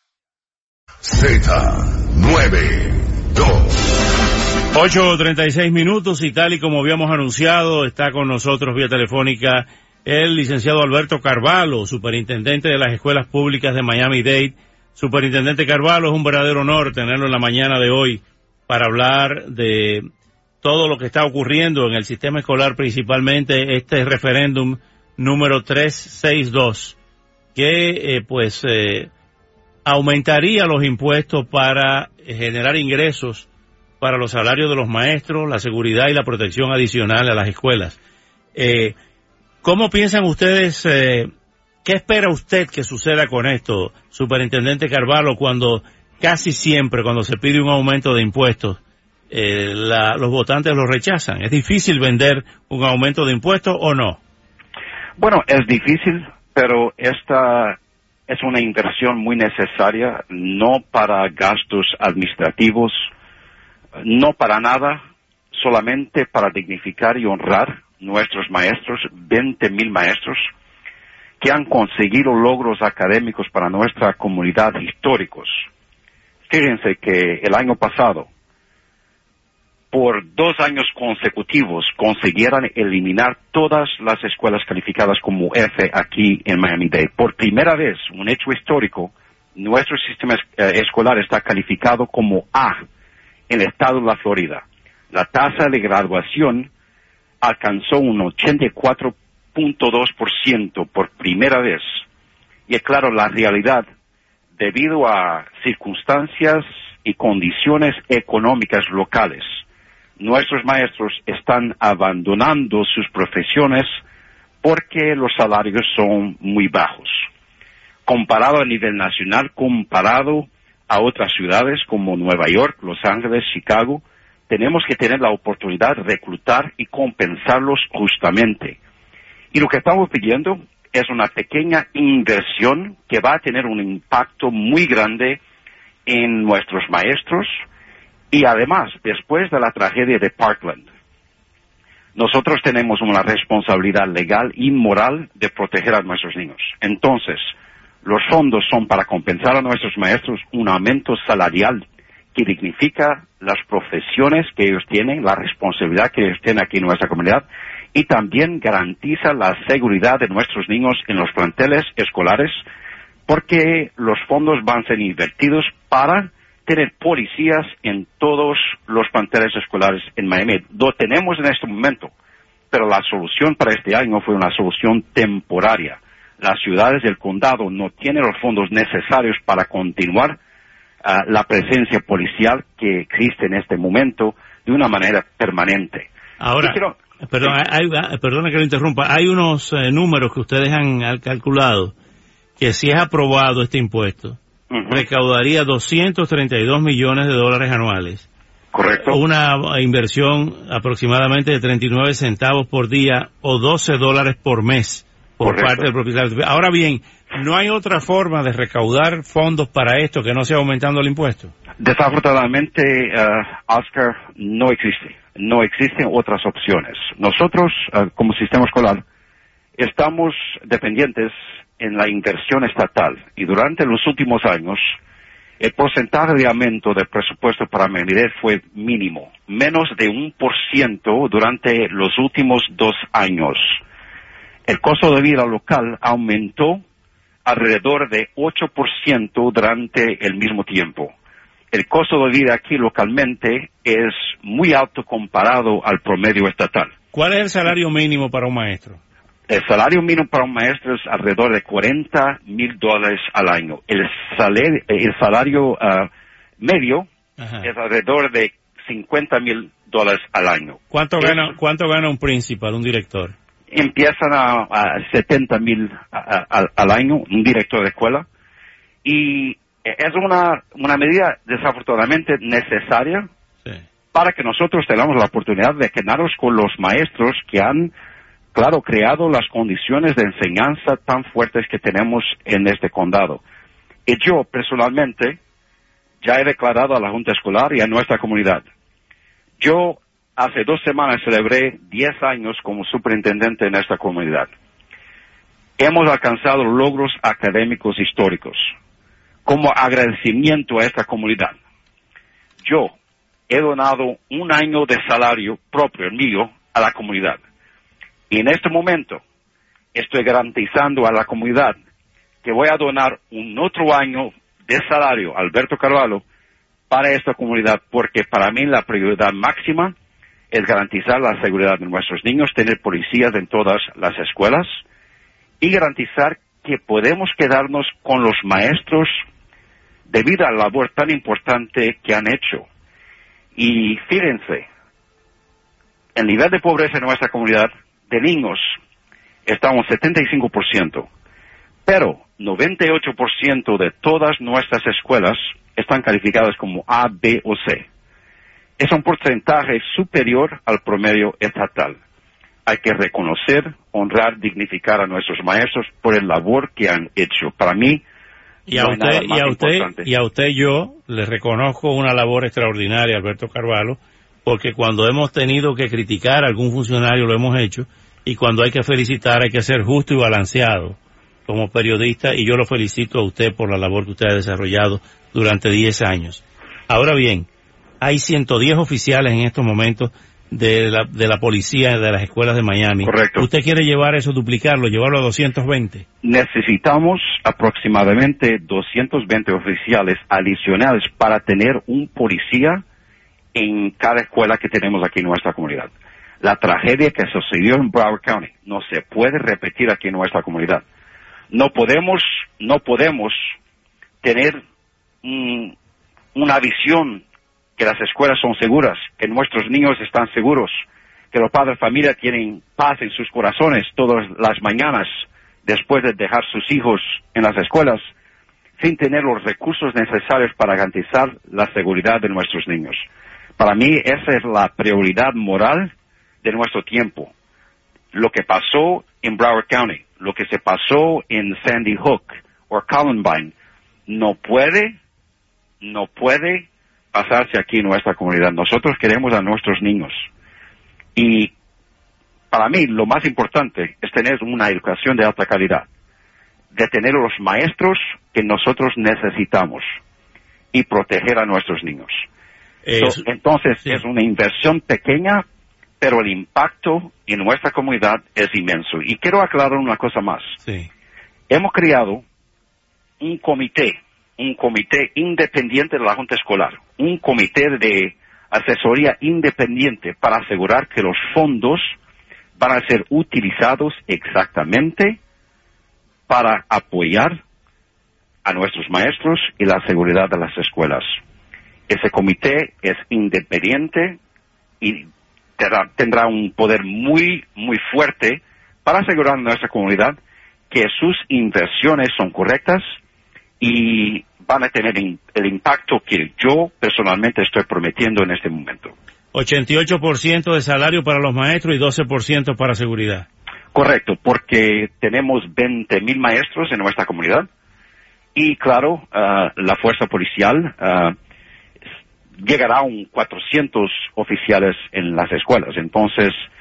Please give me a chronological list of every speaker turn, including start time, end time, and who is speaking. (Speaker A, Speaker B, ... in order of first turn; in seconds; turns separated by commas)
Speaker A: 1.0-3.7, Speaker B: 4.7-20.0, Speaker B: 20.6-27.0, Speaker B: 27.6-29.1, Speaker B: 29.9-33.5, Speaker B: 34.0-38.0, Speaker B: 38.6-39.0, Speaker B: 39.6-41.3, Speaker B: 41.9-48.8, Speaker B: 49.3-54.2, Speaker C: 55.2-57.8, Speaker C: 58.3-63.1, Speaker C: 64.0-65.0, Speaker C: 65.5-70.5, Speaker C: 71.4-75.6, Speaker C: 76.5-78.3, Speaker C: 79.9-92.8, Speaker C: 93.5-96.7, Speaker C: 97.4-102.0, Speaker C: 102.7-103.8, Speaker C: 104.6-109.6, Speaker C: 110.2-113.9, Speaker C: 114.6-117.3, Speaker C: 118.1-128.8, Speaker C: 129.5-135.4, Speaker C: 136.1-137.5, Speaker C: 138.3-140.9, Speaker C: 142.2-147.5, Speaker C: 148.0-151.8, Speaker C: 152.3-162.6, Speaker C: 163.3-172.1, Speaker C: 172.7-180.4, Speaker C: 181.0-186.1, Speaker B: 186.4-191.9, Speaker C: 186.6-187.5, Speaker B: 192.6-194.4, Speaker C: 194.7-195.1, Speaker B: 194.9-198.3, Speaker C: 198.7-199.2, Speaker B: 199.0-211.5, Speaker C: 205.4-205.9, Speaker C: 211.8-219.0, Speaker C: 219.8-224.9, Speaker C: 225.6-233.8, Speaker C: 234.7-236.8, Speaker C: 237.4-241.1, Speaker C: 241.7-246.9, Speaker B: 247.1-249.0, Speaker C: 249.5-256.1, Speaker C: 256.6-257.1, Speaker B: 257.4-257.6, Speaker C: 257.6-261.5, Speaker B: 260.9-263.3, Speaker C: 263.7-268.3, Speaker C: 269.0-273.3, Speaker C: 274.1-277.9, Speaker C: 278.5-283.4, Speaker C: 284.1-285.4, Speaker C: 286.2-288.7, Speaker C: 289.6-294.5, Speaker C: 295.8-298.7, Speaker C: 299.5-301.6, Speaker C: 302.6-302.9, Speaker C: 303.5-307.4, Speaker C: 308.3-309.2, Speaker C: 309.9-311.8, Speaker C: 312.4-316.2, Speaker C: 316.9-319.9, Speaker C: 320.5-324.8, Speaker C: 325.6-329.1, Speaker C: 330.1-332.7, Speaker C: 333.6-334.7, Speaker C: 336.1-338.8, Speaker C: 339.5-341.1, Speaker C: 341.9-347.9, Speaker C: 348.8-352.0, Speaker C: 352.7-358.0, Speaker B: 358.7-377.5, Speaker C: 358.7-360.1, Speaker B: 378.0-386.0, Speaker C: 383.0-383.5, Speaker C: 386.2-392.8, Speaker C: 393.6-400.8, Speaker C: 401.5-403.4, Speaker C: 404.2-404.6, Speaker C: 405.2-405.7, Speaker C: 406.4-407.2, Speaker C: 407.8-410.8, Speaker C: 411.3-415.1, Speaker C: 415.6-418.0, Speaker C: 418.8-423.1, Speaker C: 423.6-425.9, Speaker C: 426.4-427.3, Speaker C: 428.1-433.5, Speaker C: 434.1-435.0, Speaker C: 435.8-440.3, Speaker C: 441.2-441.5, Speaker C: 442.5-445.9, Speaker C: 446.7-449.8, Speaker C: 450.7-452.2, Speaker B: 452.9-453.2, Speaker C: 453.0-455.4, Speaker C: 456.0-460.5, Speaker C: 461.5-462.2, Speaker C: 463.2-471.9, Speaker C: 472.6-475.2, Speaker C: 476.3-477.4, Speaker C: 478.4-481.1, Speaker C: 481.9-484.2, Speaker C: 484.8-485.1, Speaker C: 485.6-490.2, Speaker C: 490.7-492.8, Speaker C: 493.6-498.9, Speaker B: 499.3-503.3, Speaker C: 503.7-507.5, Speaker C: 508.4-511.1, Speaker C: 512.4-516.5